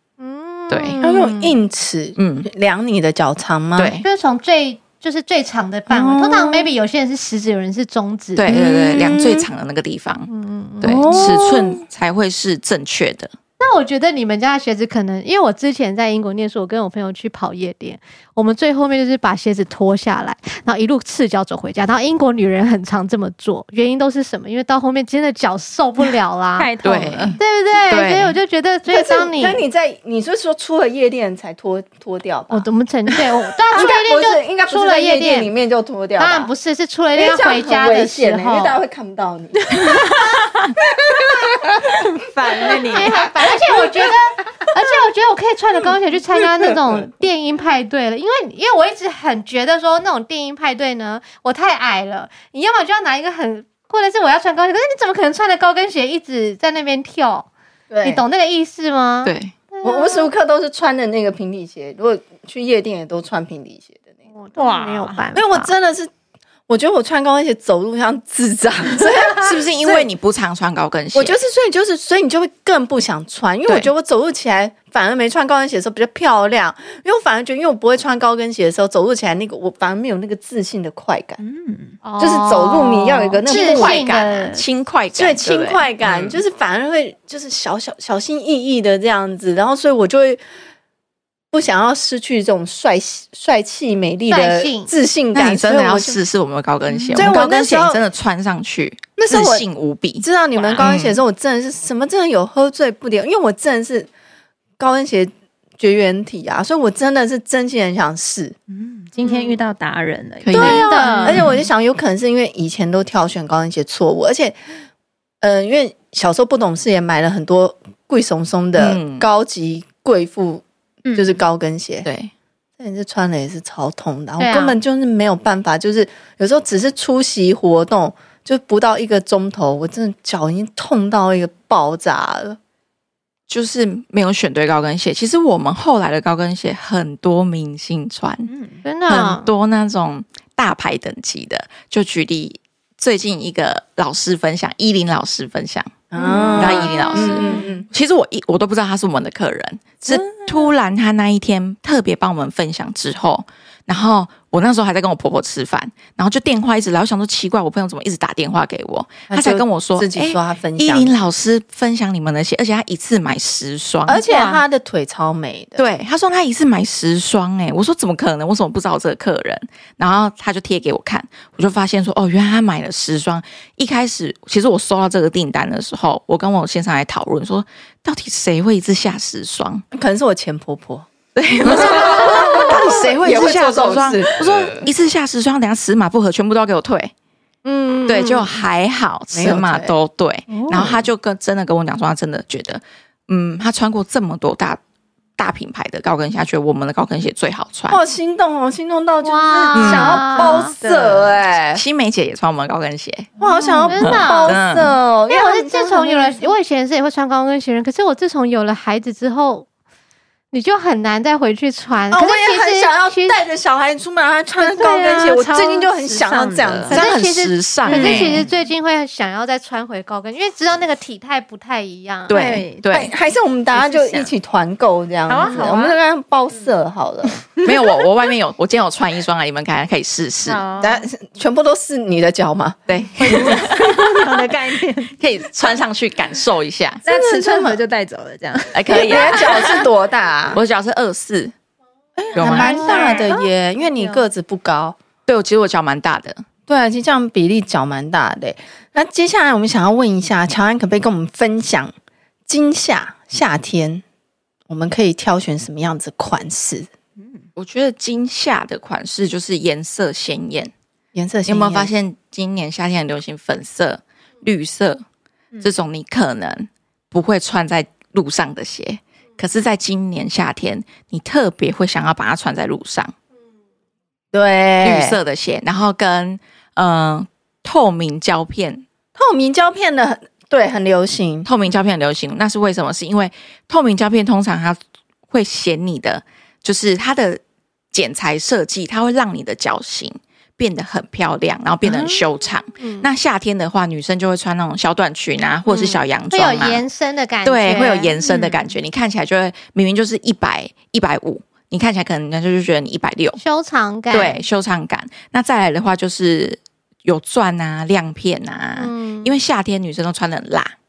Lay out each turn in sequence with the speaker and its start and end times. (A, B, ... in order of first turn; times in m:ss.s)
0:00.2-0:01.5 A
0:00.7-0:01.0 B
0:01.0-0:04.0 C
0:02.2-0:02.5 B
0:03.8-0:04.0 B
0:04.0-0:08.4 A
0:05.9-0:06.7 C
0:08.4-0:10.3 B
0:08.5-0:09.5 C
0:10.3-0:11.2 A
0:10.8-0:13.3 B
0:10.8-0:11.8 C
0:13.6-0:26.7 A
0:26.6-0:27.4 D
0:26.8-0:28.3 B
0:27.4-0:29.6 A
0:28.9-0:32.7 C
0:32.5-0:35.5 A
0:33.7-0:36.5 C
0:36.2-0:38.8 A
0:37.1-0:40.0 C
0:39.6-0:40.7 D
0:41.0-0:41.8 C
0:41.9-0:43.3 D
0:42.6-0:43.2 C
0:42.9-0:57.5 A
0:57.9-0:58.2 C
0:58.0-1:00.3 A
0:59.2-0:59.5 B
0:59.8-1:04.1 C
1:04.3-1:05.7 A
1:04.6-1:05.2 D
1:05.3-1:06.1 C
1:06.7-1:10.1 C
1:09.3-1:11.4 B
1:11.1-1:21.4 C
1:21.4-1:22.0 D
1:22.0-1:24.6 A
1:22.2-1:24.0 C
1:23.5-1:26.4 B
1:25.1-1:30.4 C
1:31.5-1:36.2 C
1:34.3-1:34.9 A
1:35.3-1:40.2 B
1:36.9-1:37.3 D
1:37.1-1:38.0 C
1:39.2-1:39.6 C
1:40.2-1:44.1 C
1:40.8-1:41.2 B
1:44.8-1:48.5 C
1:48.7-1:51.6 D
1:49.2-1:49.6 C
1:50.4-1:50.8 B
1:50.5-1:54.6 C
1:50.6-1:51.4 A
1:55.4-2:02.1 C
1:58.8-1:59.2 B
2:01.0-2:01.3 D
2:02.0-2:02.3 B
2:02.8-2:12.6 C
2:04.4-2:04.7 A
2:13.5-2:18.5 B
2:18.5-2:18.8 D
2:18.8-2:19.4 A
2:19.1-2:44.2 B
2:26.1-2:27.8 C
2:26.2-2:26.6 D
2:26.6-2:27.2 A
2:39.3-2:41.2 C
2:44.0-2:45.8 C
2:44.2-2:44.6 D
2:45.8-2:59.8 B
2:59.9-3:01.1 C
3:01.3-3:07.1 B
3:01.6-3:04.8 C
3:07.6-3:08.5 A
3:08.1-3:14.8 B
3:09.3-3:09.9 C
3:10.5-3:10.9 D
3:10.6-3:10.9 C
3:15.4-3:18.0 B
3:17.9-3:21.8 C
3:19.2-3:20.8 A
3:19.7-3:20.3 B
3:20.2-3:21.3 D
3:21.7-3:23.3 B
3:23.4-3:24.0 D
3:23.4-3:26.5 C
3:23.9-3:24.6 A
3:24.0-3:24.9 B
3:25.3-3:29.6 A
3:30.5-3:33.4 A
3:32.1-3:37.0 C
3:34.6-3:37.0 D
3:36.9-3:38.4 B
3:36.9-3:42.4 A
3:37.9-3:38.4 D
3:37.9-3:38.4 C
3:42.3-3:43.1 B
3:42.3-3:42.9 D
3:42.9-3:47.4 C
3:43.7-3:44.3 D
3:45.3-3:46.0 D
3:47.5-3:47.8 D
3:47.6-3:50.6 B
3:50.4-3:51.0 D
3:50.8-3:53.6 C
3:52.9-3:54.5 B
3:53.2-3:55.1 D
3:55.0-3:57.0 B
3:57.0-3:59.9 D
3:57.0-3:57.8 C
3:58.7-3:59.7 B
3:58.9-4:00.6 C
4:00.5-4:01.5 B
4:02.2-4:04.9 C
4:02.3-4:02.9 B
4:02.4-4:04.2 D
4:05.3-4:06.4 B
4:06.7-4:11.9 C
4:12.5-4:14.0 C
4:14.7-4:16.9 C
4:17.6-4:20.7 B
4:21.1-4:21.9 C
4:21.5-4:25.0 B
4:25.6-4:33.1 B
4:34.3-4:35.2 C
4:34.8-4:38.8 B
4:39.2-4:41.5 C
4:41.4-4:44.8 B
4:45.3-4:47.4 B
4:47.9-4:56.8 B
4:52.8-4:53.0 A
4:55.7-4:58.1 A
4:57.4-5:03.4 B
4:58.2-4:58.6 D
5:03.4-5:04.4 A
5:04.1-5:10.7 B
5:08.8-5:09.3 A